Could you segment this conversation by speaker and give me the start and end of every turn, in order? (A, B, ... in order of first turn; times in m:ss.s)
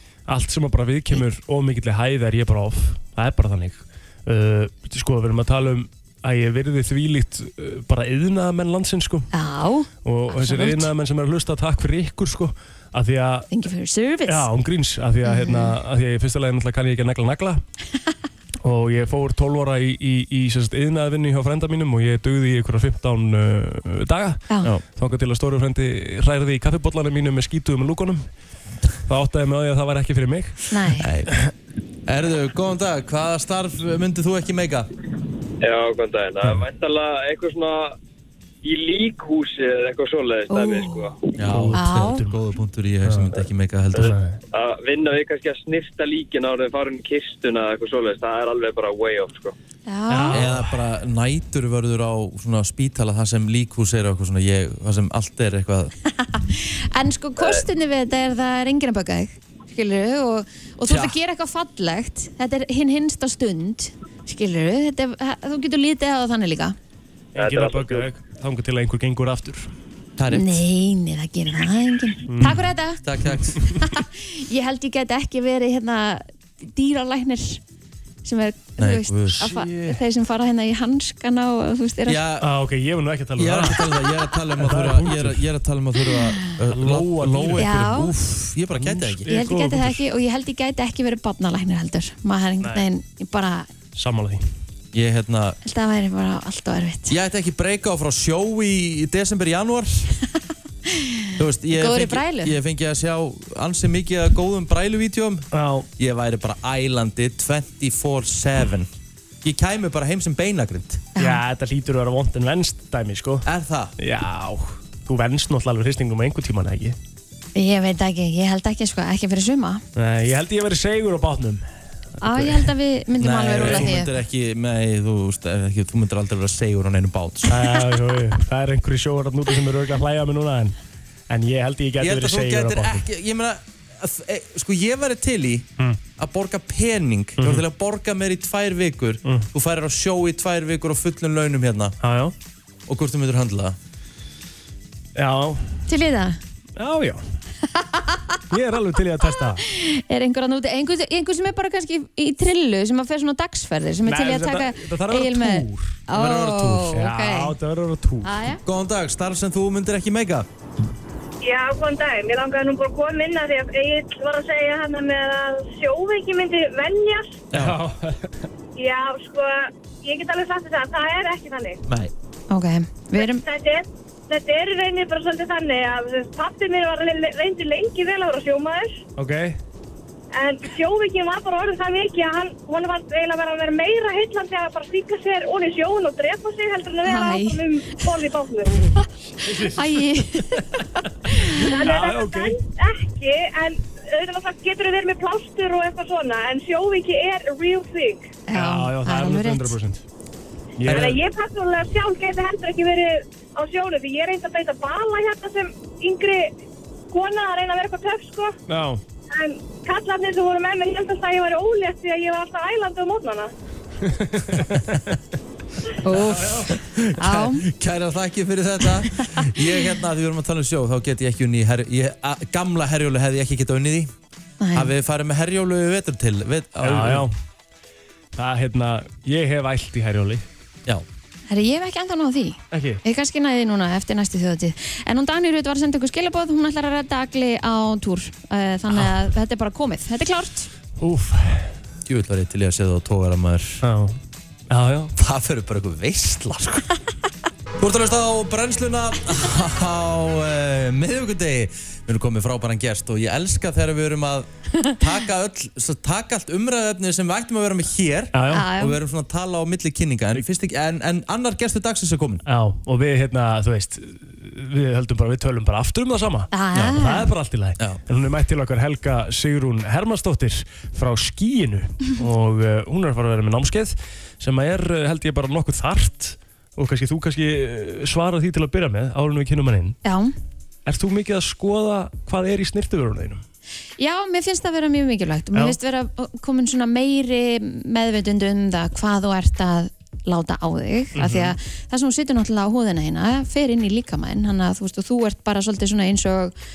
0:00.3-0:09.3 A
0:09.3-0:10.9 B
0:10.0-0:13.5 A
0:13.5-0:14.5 B
0:14.2-0:17.6 A
0:15.2-0:15.8 B
0:18.6-0:28.3 A
0:29.1-0:30.9 A
0:30.7-0:31.1 B
0:31.0-0:31.4 C
0:32.1-0:34.9 C
0:35.6-0:38.0 D
0:38.6-0:41.3 D
0:40.5-0:41.0 B
0:41.4-0:44.2 C
0:41.4-0:42.4 A
0:41.7-0:42.2 B
0:43.0-0:44.4 A
0:44.5-0:49.6 D
0:49.9-0:50.5 B
0:50.1-0:50.8 A
0:50.3-0:55.9 C
0:56.2-1:06.8 B
0:57.4-0:57.6 D
1:00.9-1:01.1 C
1:07.4-1:08.1 D
1:07.4-1:09.7 A
1:10.2-1:10.6 C
1:10.3-1:13.0 B
1:12.3-1:12.6 A
1:13.0-1:13.6 C
1:13.6-1:17.6 B
1:18.2-1:22.2 B
1:18.8-1:20.0 C
1:22.1-1:22.5 C
1:22.4-1:23.8 A
1:23.4-1:29.3 C
1:24.6-1:25.4 A
1:26.7-1:30.0 A
1:27.6-1:28.1 B
1:29.3-1:33.7 B
1:32.6-1:32.9 A
1:33.9-1:34.4 A
1:34.9-1:35.6 C
1:35.6-1:37.2 B
1:37.1-1:40.2 C
1:40.9-1:42.6 B
1:41.4-1:48.9 C
1:45.5-1:45.9 A
1:49.4-1:51.0 C
1:51.1-1:51.4 B
1:51.2-1:53.5 A
1:53.4-1:53.9 C
1:54.0-1:57.0 A
1:57.6-1:59.8 B
2:00.0-2:02.7 A
2:02.2-2:04.1 B
2:03.2-2:07.6 C
2:03.6-2:03.9 A
2:07.5-2:10.8 A
2:11.3-2:13.0 A
2:12.0-2:15.7 C
2:16.2-2:21.9 C
2:17.4-2:17.6 A
2:19.2-2:19.5 A
2:22.0-2:22.3 A
2:22.9-2:23.8 C
2:25.1-2:25.8 A
2:25.9-2:26.4 B
2:26.8-2:27.2 A
2:27.7-2:28.4 B
2:28.5-2:29.6 A
2:29.6-2:37.6 B
2:34.0-2:36.0 A
2:36.1-2:37.0 C
2:36.9-2:38.3 A
2:38.2-2:38.6 B
2:38.6-2:40.5 C
2:41.4-2:47.4 E
2:47.5-2:47.8 C
2:47.5-2:48.4 A
2:48.8-2:51.8 E
2:52.5-2:53.4 B
2:53.2-2:59.0 E
2:59.2-2:59.6 A
3:00.4-3:08.9 E
3:07.0-3:08.1 B
3:09.4-3:10.0 A
3:09.4-3:11.7 B
3:11.2-3:12.6 A
3:11.7-3:18.3 E
3:18.5-3:19.8 B
3:18.5-3:20.0 A
3:20.8-3:21.2 A
3:20.8-3:26.5 E
3:27.1-3:28.6 E
3:28.7-3:29.0 A
3:29.3-3:33.5 E
3:34.0-3:35.1 A
3:36.0-3:37.6 B
3:36.1-3:37.5 A
3:37.7-3:44.1 C
3:44.6-3:44.9 B
3:44.8-3:47.3 C
3:46.8-3:47.3 A
3:48.4-3:50.5 A
3:51.5-4:00.7 B
3:52.7-3:53.0 A
4:01.0-4:01.7 A
4:02.1-4:03.8 C
4:03.8-4:04.2 A
4:04.7-4:05.1 A
4:05.2-4:06.9 C
4:07.8-4:22.4 C
4:18.3-4:18.7 A
4:18.5-4:19.0 B
4:22.5-4:40.0 A
4:26.5-4:27.3 B
4:40.0-4:40.4 B
4:40.8-4:43.4 A
4:44.0-4:56.5 B
4:51.1-4:51.6 A